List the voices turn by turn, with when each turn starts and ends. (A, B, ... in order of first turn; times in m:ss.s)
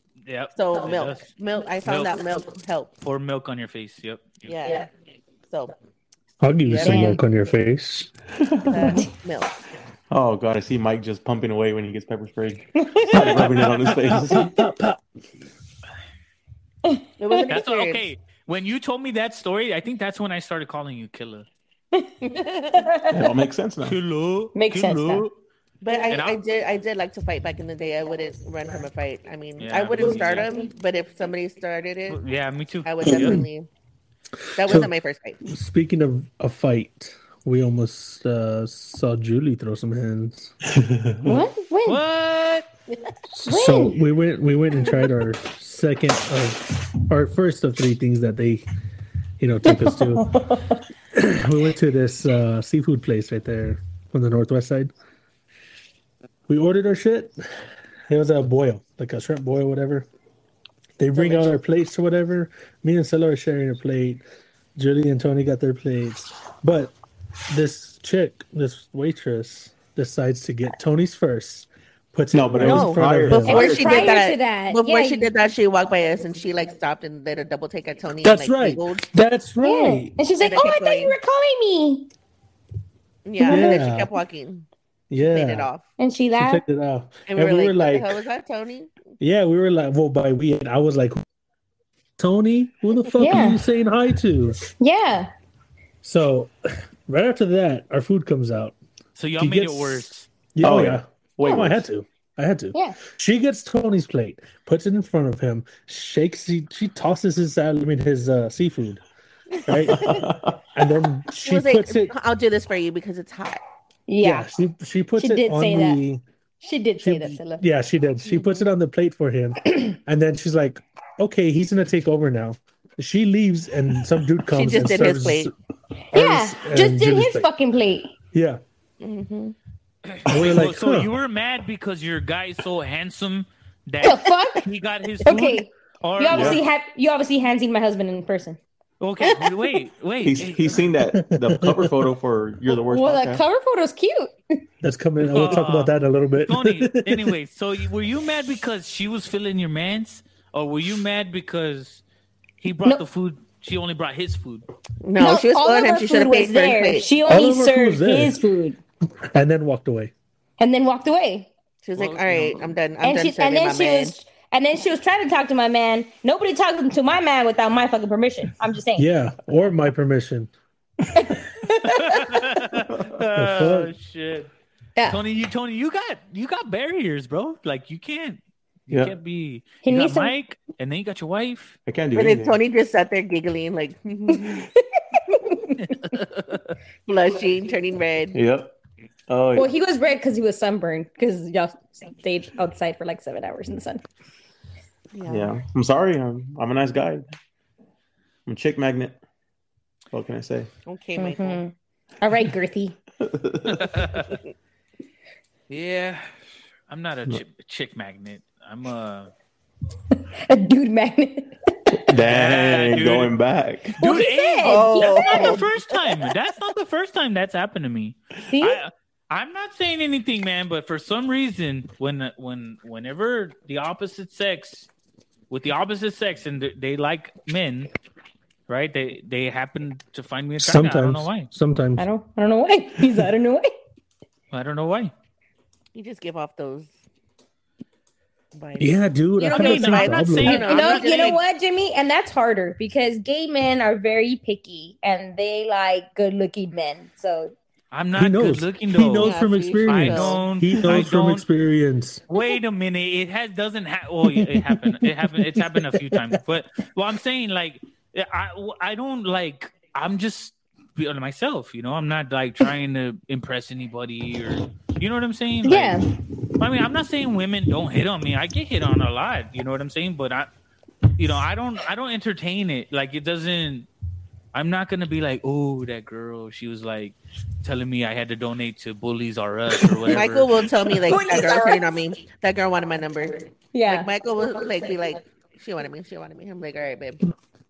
0:00.3-0:01.3 A
0:00.6-0:02.9 B
0:01.8-0:02.2 A
0:03.0-0:04.6 A
0:04.5-0:04.9 B
0:05.5-0:05.7 B
0:06.4-0:08.1 C
0:06.6-0:07.2 B
0:06.8-0:07.2 D
0:08.4-0:08.7 E
0:08.7-0:09.5 B
0:10.1-0:14.5 E
0:12.8-0:13.3 D
0:14.1-0:15.0 C
0:16.9-0:17.4 D
0:17.2-0:18.1 B
0:17.5-0:21.5 A
0:21.9-0:23.2 D
0:22.3-0:23.0 B
0:23.1-0:24.0 E
0:23.8-0:25.4 A
0:24.6-0:25.2 D
0:25.8-0:32.2 B
0:26.1-0:26.4 A
0:29.6-0:30.6 A
0:32.1-0:33.4 A
0:32.8-0:33.7 B
0:33.1-0:33.5 C
0:34.6-0:35.4 B
0:34.6-0:34.9 C
0:35.4-0:40.5 C
0:40.8-0:41.2 E
0:41.2-0:42.0 D
0:41.9-0:42.7 A
0:43.3-0:48.6 C
0:43.5-0:44.0 D
0:49.4-0:50.4 C
0:49.6-0:50.8 D
0:51.1-0:54.9 C
0:56.5-0:57.4 C
0:58.1-1:00.1 C
1:01.0-1:04.2 C
1:01.2-1:01.6 B
1:04.8-1:07.0 C
1:07.5-1:13.7 C
1:12.3-1:14.2 E
1:12.6-1:19.1 B
1:13.4-1:15.3 D
1:18.2-1:20.2 C
1:19.6-1:22.1 D
1:20.4-1:21.2 B
1:23.2-1:24.7 B
1:23.4-1:23.8 D
1:23.4-1:24.1 C
1:25.1-1:25.7 C
1:25.3-1:25.8 B
1:26.0-1:26.6 D
1:26.4-1:28.2 C
1:27.3-1:28.9 B
1:29.2-1:31.2 C
1:32.2-1:34.6 C
1:33.2-1:33.6 D
1:34.8-1:35.3 D
1:36.0-1:36.5 C
1:37.1-1:38.8 C
1:39.2-1:40.3 A
1:39.4-1:49.0 C
1:40.6-1:41.8 E
1:42.7-1:43.0 D
1:49.7-1:52.1 C
1:49.8-1:50.6 E
1:51.3-1:53.6 B
1:54.1-1:54.5 D
1:54.2-1:56.2 C
1:55.2-1:56.0 D
1:56.6-1:57.6 D
1:57.0-2:05.5 C
1:58.3-1:58.7 B
2:04.5-2:05.5 B
2:06.1-2:08.1 D
2:06.1-2:07.5 C
2:08.3-2:08.6 C
2:09.0-2:09.6 B
2:10.1-2:16.6 A
2:10.3-2:11.1 C
2:14.0-2:14.6 D
2:15.2-2:18.6 D
2:16.3-2:16.6 E
2:19.0-2:20.9 A
2:20.2-2:23.4 E
2:21.2-2:22.1 C
2:22.7-2:24.3 D
2:24.8-2:27.4 C
2:25.2-2:32.0 A
2:32.6-2:34.7 A
2:35.0-2:37.1 B
2:35.2-2:38.8 D
2:37.2-2:38.4 C
2:39.3-2:40.1 C
2:40.6-2:41.5 D
2:41.8-2:44.1 B
2:42.0-2:42.8 A
2:43.0-2:49.1 D
2:49.0-2:50.5 C
2:51.2-2:52.5 D
2:51.8-2:54.5 A
2:53.3-2:53.9 C
2:55.1-3:01.8 A
2:59.8-3:00.3 D
3:01.9-3:02.6 E
3:02.2-3:04.7 B
3:04.3-3:05.9 D
3:05.8-3:06.7 A
3:07.1-3:08.4 B
3:08.3-3:08.7 E
3:09.3-3:09.7 E
3:09.6-3:14.0 D
3:15.1-3:15.6 B
3:15.2-3:17.3 E
3:18.5-3:19.2 E
3:20.1-3:20.7 E
3:20.9-3:21.6 B
3:21.2-3:23.0 D
3:23.2-3:23.9 E
3:23.7-3:24.3 A
3:25.7-3:26.3 A
3:26.9-3:29.3 A
3:30.4-3:32.0 D
3:32.1-3:34.0 E
3:32.2-3:33.3 A
3:33.9-3:44.9 A
3:34.0-3:35.6 D
3:34.6-3:35.8 B
3:38.5-3:38.8 D
3:45.5-3:47.9 A
3:48.7-3:51.5 A
3:50.6-3:52.0 C
3:52.0-3:53.7 D
3:54.5-3:55.1 A
3:55.9-3:57.0 B
3:58.5-4:01.4 B
3:58.8-4:00.6 C
3:59.4-4:01.3 A
4:00.5-4:07.5 D
4:07.9-4:09.4 A
4:08.2-4:12.2 C
4:09.2-4:10.4 B
4:09.9-4:11.4 A
4:12.3-4:26.0 A
4:14.2-4:16.4 C
4:25.6-4:26.1 D
4:26.6-4:30.5 A
4:31.2-4:33.9 A
4:34.5-4:40.5 A
4:40.1-4:47.3 B
4:41.1-4:41.9 D
4:43.7-4:44.1 D